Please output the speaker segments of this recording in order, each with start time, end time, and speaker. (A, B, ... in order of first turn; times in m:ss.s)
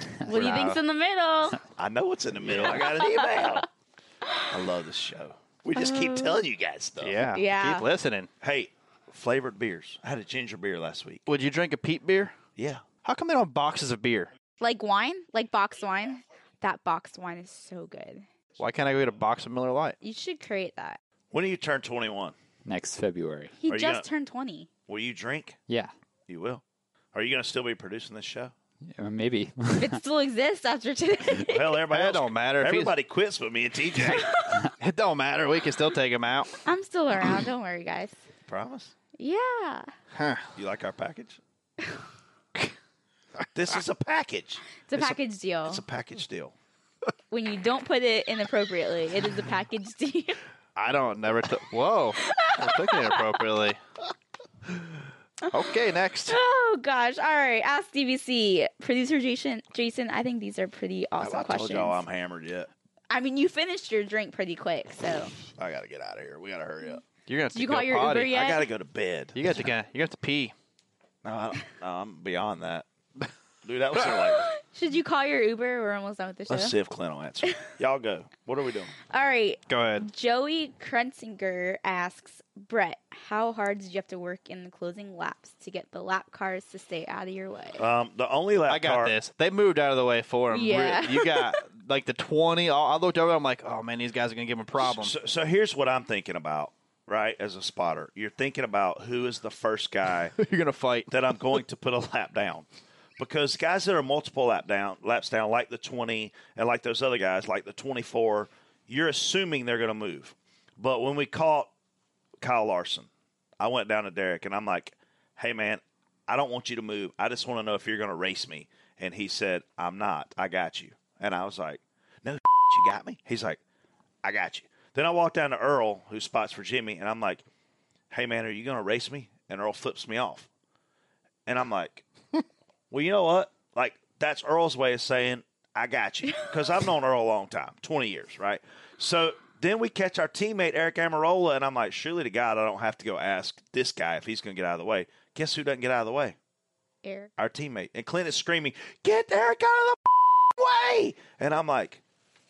0:00.3-0:01.6 A
0:00.3-0:00.8 B
0:01.8-0:03.7 C
0:02.5-0:02.7 B
0:02.7-0:03.6 A
0:04.5-0:07.2 C
0:05.8-0:06.4 A
0:07.0-0:08.3 B
0:07.3-0:07.9 A
0:08.4-0:11.3 C
0:11.3-0:12.4 B
0:12.6-0:12.8 C
0:13.0-0:14.3 B
0:14.6-0:18.3 A
0:18.6-0:20.0 B
0:20.0-0:21.0 A
0:21.3-0:22.4 C
0:22.7-0:23.6 D
0:23.6-0:24.7 A
0:23.7-0:24.1 C
0:24.9-0:25.6 C
0:26.3-0:26.6 C
0:27.1-0:28.5 C
0:28.9-0:30.0 D
0:29.8-0:31.8 A
0:31.4-0:34.3 C
0:31.9-0:32.9 B
0:34.2-0:34.4 A
0:34.8-0:36.6 B
0:36.6-0:38.2 A
0:38.5-0:38.9 C
0:39.2-0:39.9 A
0:40.2-0:40.5 B
0:40.6-0:41.4 C
0:43.5-0:46.6 C
0:44.8-0:45.8 A
0:47.3-0:50.4 A
0:50.8-0:53.8 B
0:52.2-0:53.2 A
0:55.5-0:56.4 B
0:56.3-1:02.0 A
1:01.2-1:02.7 C
1:03.1-1:05.3 A
1:05.6-1:07.0 C
1:07.3-1:08.4 B
1:07.5-1:08.7 A
1:08.3-1:09.6 C
1:09.4-1:10.5 B
1:11.2-1:12.9 C
1:13.6-1:14.5 C
1:14.4-1:16.8 A
1:16.5-1:18.9 C
1:19.1-1:27.8 A
1:19.7-1:20.1 B
1:27.8-1:29.2 C
1:28.7-1:35.1 B
1:30.5-1:31.6 A
1:34.8-1:40.4 C
1:40.4-1:41.2 B
1:41.1-1:42.7 C
1:43.2-1:51.7 C
1:52.4-2:03.6 C
2:04.2-2:07.4 C
2:08.1-2:10.5 C
2:11.5-2:12.0 C
2:12.9-2:26.4 C
2:27.0-2:27.3 A
2:27.4-2:32.0 C